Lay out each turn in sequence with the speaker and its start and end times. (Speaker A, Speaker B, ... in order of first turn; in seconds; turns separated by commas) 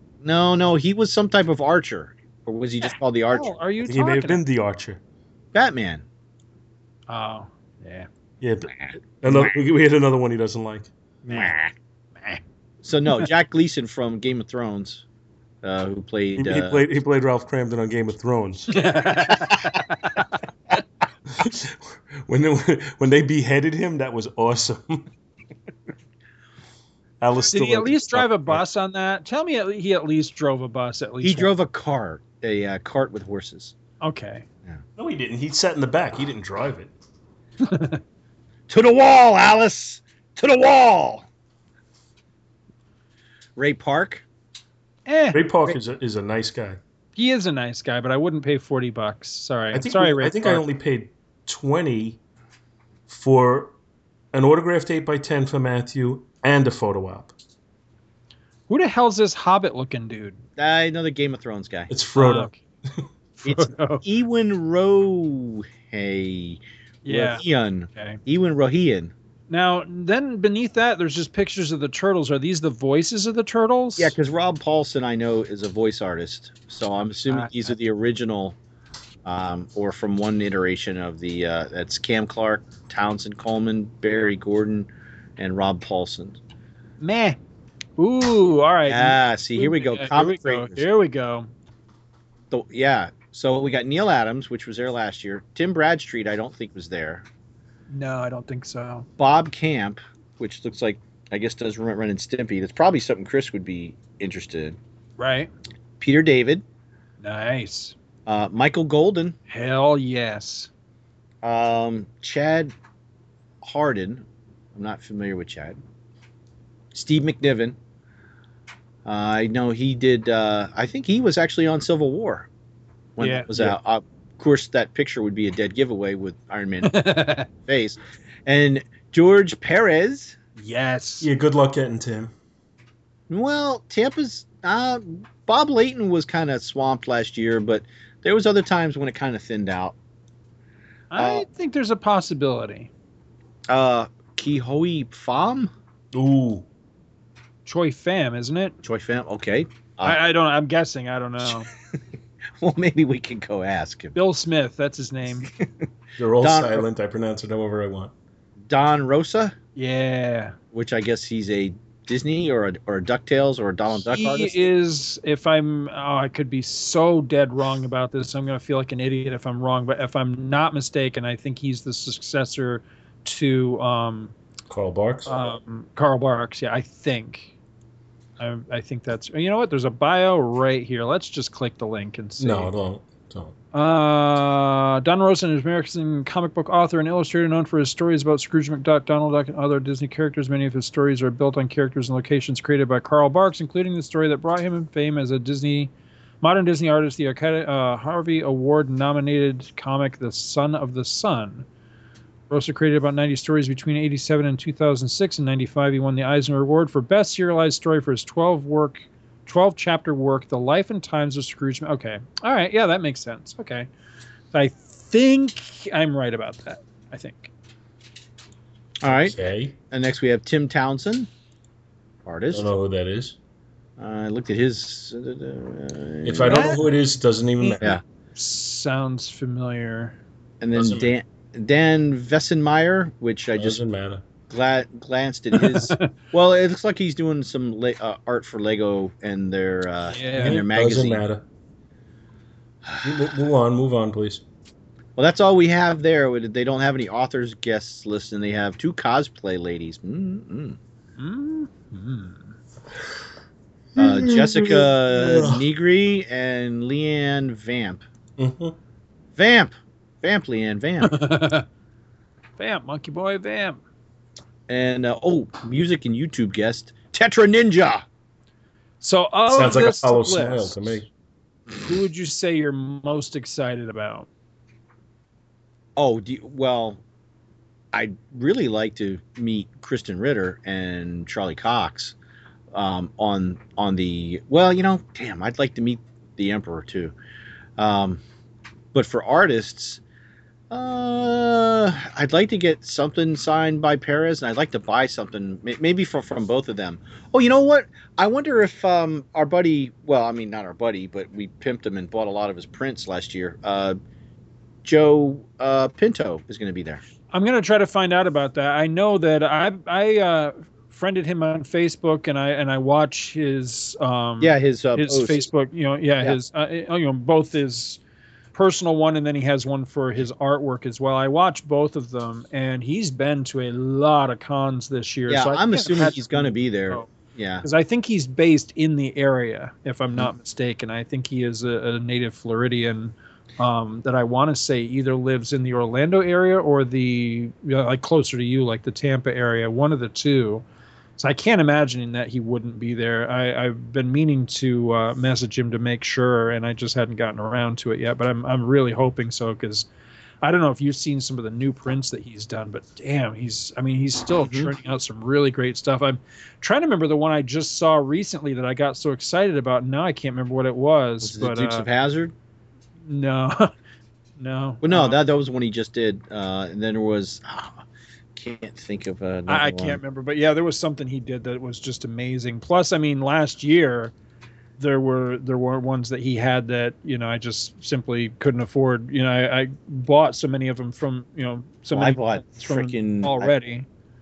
Speaker A: 0.2-3.5, Speaker B: 3.3-4.4, Speaker C: 3.8-5.0, Speaker A: 5.5-6.0, Speaker B: 7.1-8.1, Speaker C: 8.4-10.9, Speaker A: 9.3-9.5, Speaker B: 11.2-11.5, Speaker A: 11.3-11.7, Speaker A: 12.8-15.1, Speaker A: 15.6-16.8, Speaker C: 16.4-19.3, Speaker B: 18.7-20.3, Speaker C: 21.3-25.1, Speaker C: 27.2-28.6, Speaker B: 27.5-31.5, Speaker A: 31.2-33.7, Speaker B: 34.0-34.5, Speaker C: 35.0-36.9, Speaker B: 37.6-38.0, Speaker A: 38.7-41.3, Speaker A: 43.6-44.2, Speaker B: 45.1-45.8, Speaker C: 45.3-46.8, Speaker B: 47.2-50.6, Speaker C: 49.7-52.2, Speaker C: 53.1-53.7, Speaker C: 54.3-57.3, Speaker B: 58.7-60.4, Speaker A: 60.6-61.9, Speaker C: 61.9-63.0, Speaker B: 62.1-62.6, Speaker B: 63.4-64.0, Speaker A: 63.5-69.1, Speaker B: 67.0-68.2, Speaker B: 69.5-74.2, Speaker A: 74.0-78.6, Speaker B: 77.3-77.7, Speaker A: 79.2-86.4, Speaker B: 87.0-87.4, Speaker B: 88.0-91.5, Speaker A: 88.9-90.9, Speaker A: 92.5-97.2, Speaker B: 97.9-99.1, Speaker A: 99.2-104.8, Speaker B: 105.2-105.5, Speaker A: 106.0-106.6, Speaker B: 107.2-108.0, Speaker A: 108.3-109.4, Speaker B: 109.5-110.7, Speaker A: 111.4-112.7, Speaker A: 113.6-115.8, Speaker A: 116.9-117.8, Speaker A: 119.0-122.5, Speaker A: 123.2-127.0, Speaker B: 123.2-123.8, Speaker B: 126.8-127.5, Speaker A: 127.6-130.4, Speaker B: 130.6-131.3, Speaker C: 131.2-132.3, Speaker A: 133.3-140.0, Speaker B: 141.1-142.9, Speaker A: 141.2-141.5, Speaker A: 143.7-145.7, Speaker C: 146.1-146.7, Speaker B: 147.7-148.8, Speaker A: 148.8-150.2, Speaker B: 150.0-151.7, Speaker A: 151.4-152.0, Speaker A: 152.6-154.2, Speaker B: 154.2-155.5, Speaker C: 156.2-158.1, Speaker A: 156.4-156.9, Speaker A: 158.7-159.6, Speaker B: 159.8-160.6, Speaker A: 160.7-164.6, Speaker B: 164.0-174.3, Speaker C: 174.7-175.3, Speaker B: 175.3-177.5, Speaker B: 178.4-182.7, Speaker C: 182.4-183.5, Speaker B: 183.7-195.9, Speaker B: 196.4-201.7, Speaker B: 202.5-213.9, Speaker B: 214.5-217.5, Speaker A: 219.0-219.3, Speaker C: 219.1-219.8, Speaker A: 219.9-221.3, Speaker A: 222.2-222.7, Speaker C: 222.5-223.4, Speaker A: 224.0-226.8, Speaker C: 226.2-228.0, Speaker B: 228.4-230.2, Speaker A: 230.6-233.8, Speaker C: 230.8-231.1, Speaker C: 233.6-234.2, Speaker A: 234.5-241.2, Speaker B: 235.5-236.1, Speaker B: 240.1-240.6, Speaker C: 240.4-241.4, Speaker A: 242.9-243.3, Speaker C: 243.0-244.4, Speaker A: 245.2-250.8, Speaker B: 251.2-252.5, Speaker C: 254.0-255.6, Speaker A: 254.0-258.0, Speaker C: 258.4-258.8, Speaker A: 259.4-261.1, Speaker B: 261.0-261.7, Speaker B: 262.6-263.8, Speaker A: 264.7-268.1, Speaker B: 269.0-271.0, Speaker C: 269.5-271.1, Speaker B: 271.8-274.3, Speaker A: 276.0-277.0, Speaker A: 277.9-282.2, Speaker A: 282.7-287.1, Speaker A: 287.8-288.2, Speaker A: 288.9-290.0, Speaker A: 290.7-304.0, Speaker A: 304.8-307.0, Speaker B: 307.3-318.0, Speaker A: 314.4-315.5, Speaker B: 318.5-327.1, Speaker A: 325.3-327.6, Speaker B: 327.6-340.6, Speaker B: 341.2-349.9, Speaker B: 350.4-361.9, Speaker A: 354.4-354.7, Speaker A: 361.2-362.3, Speaker B: 363.1-363.7, Speaker B: 364.4-365.2, Speaker A: 364.8-367.8, Speaker A: 368.4-370.0, Speaker B: 369.5-374.1, Speaker B: 374.8-383.9, Speaker A: 381.9-383.5